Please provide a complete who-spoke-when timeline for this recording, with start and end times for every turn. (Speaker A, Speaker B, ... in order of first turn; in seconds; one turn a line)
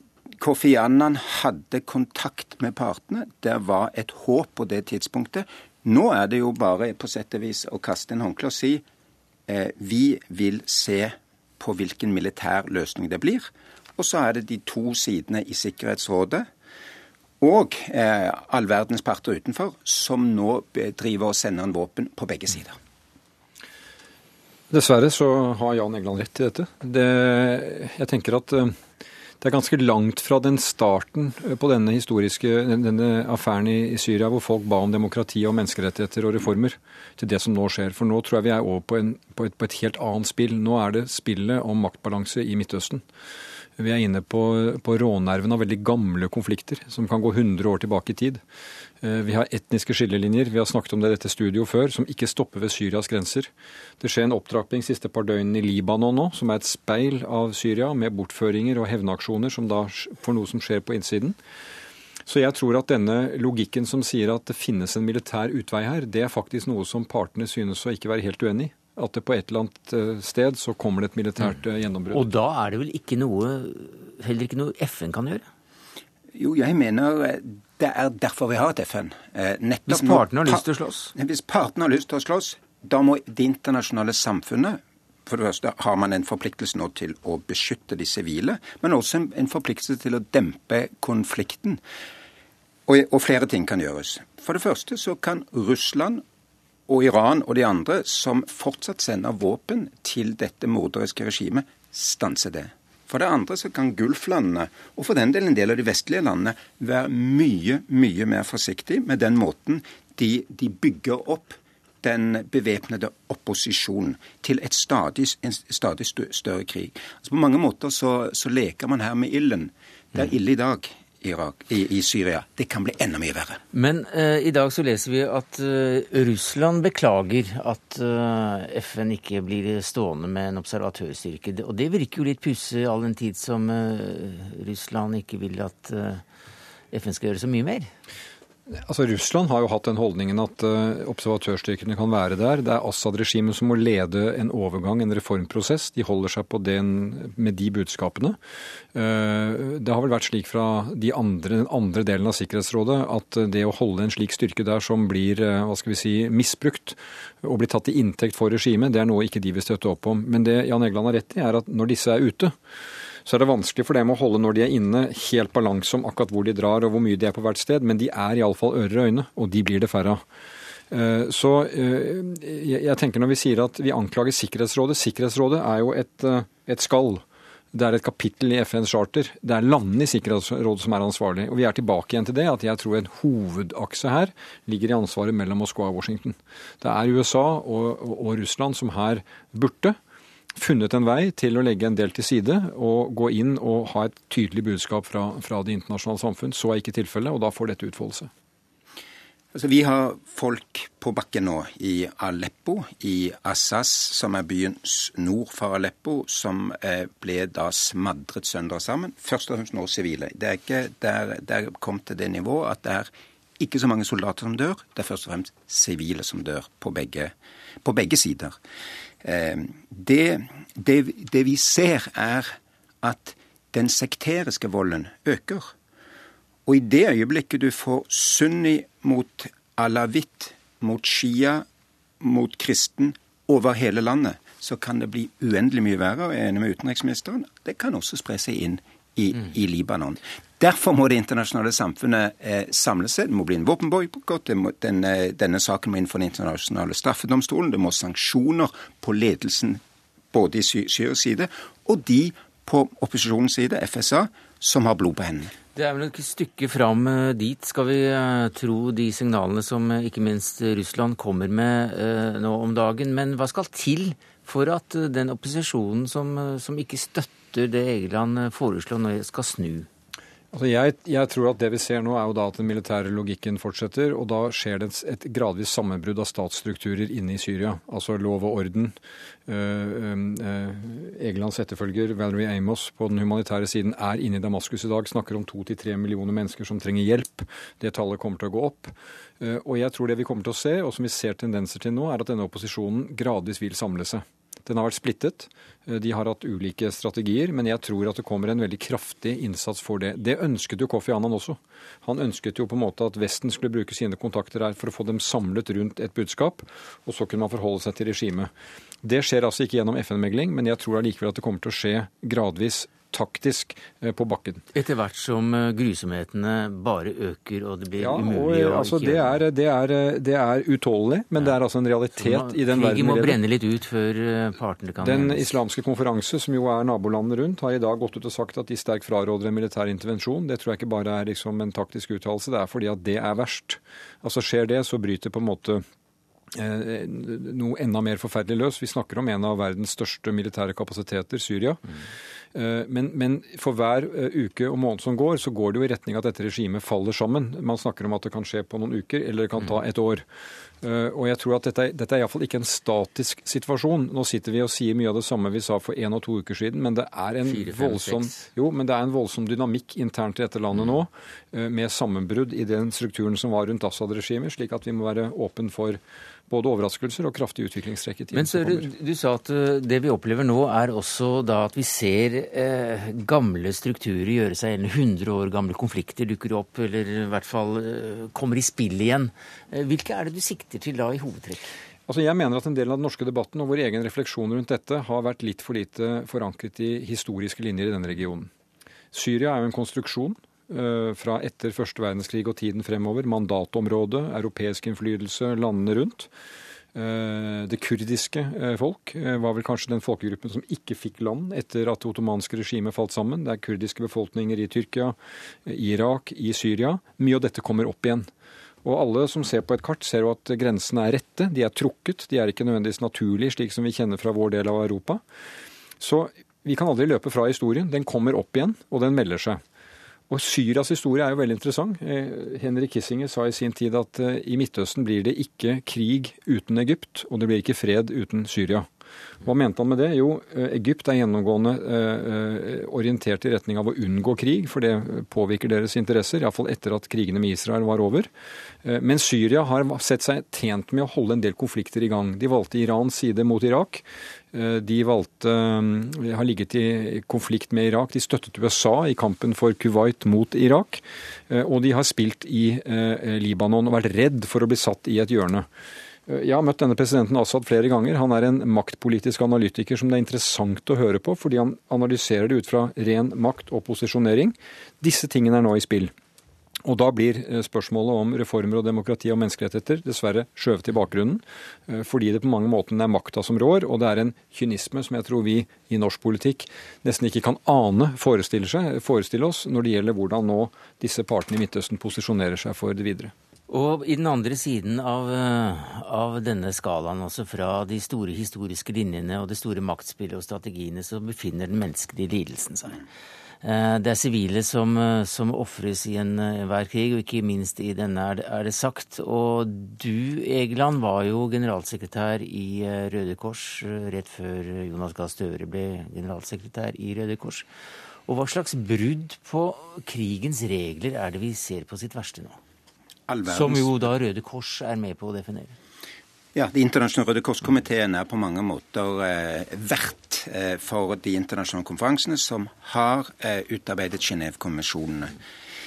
Speaker A: 0.4-8.8
Speaker A: 9.5-16.5
Speaker A: 17.4-22.8
Speaker B: 24.7-28.8
Speaker B: 29.4-43.0
Speaker B: 43.8-48.4
Speaker B: 49.0-61.4
Speaker B: 62.3-72.3
Speaker C: 72.1-75.5
Speaker A: 76.3-91.8
Speaker C: 79.9-81.1
Speaker A: 92.9-96.2
Speaker A: 96.9-123.6
Speaker C: 123.7-136.2
Speaker C: 136.9-137.9
Speaker B: 138.8-148.4
Speaker B: 148.9-162.5
Speaker B: 163.3-170.2
Speaker B: 170.9-177.2
Speaker B: 177.7-190.0
Speaker B: 190.6-198.3
Speaker A: 199.5-218.6
Speaker A: 219.2-225.7
Speaker A: 226.7-231.7
Speaker A: 232.2-249.8
Speaker A: 250.3-255.5
Speaker C: 255.8-269.9
Speaker B: 270.5-278.9
Speaker B: 279.5-308.5
Speaker B: 309.0-314.6
Speaker C: 314.7-319.4
Speaker B: 318.0-323.4
Speaker C: 322.2-325.5
Speaker B: 325.0-335.9
Speaker B: 336.6-341.8
Speaker B: 342.6-350.2
Speaker B: 350.8-368.9
Speaker C: 357.5-358.5
Speaker C: 360.8-361.0
Speaker C: 368.3-381.7
Speaker B: 382.1-388.5
Speaker B: 389.1-396.3
Speaker B: 396.9-408.3
Speaker B: 408.8-415.2
Speaker B: 416.0-419.6
Speaker B: 420.3-428.9
Speaker B: 429.4-438.3
Speaker B: 438.9-455.7
Speaker B: 456.3-466.1
Speaker B: 466.9-483.3
Speaker C: 483.7-493.0
Speaker C: 493.6-507.7
Speaker C: 508.3-512.6
Speaker A: 513.3-514.0
Speaker C: 513.5-515.8
Speaker A: 516.5-525.4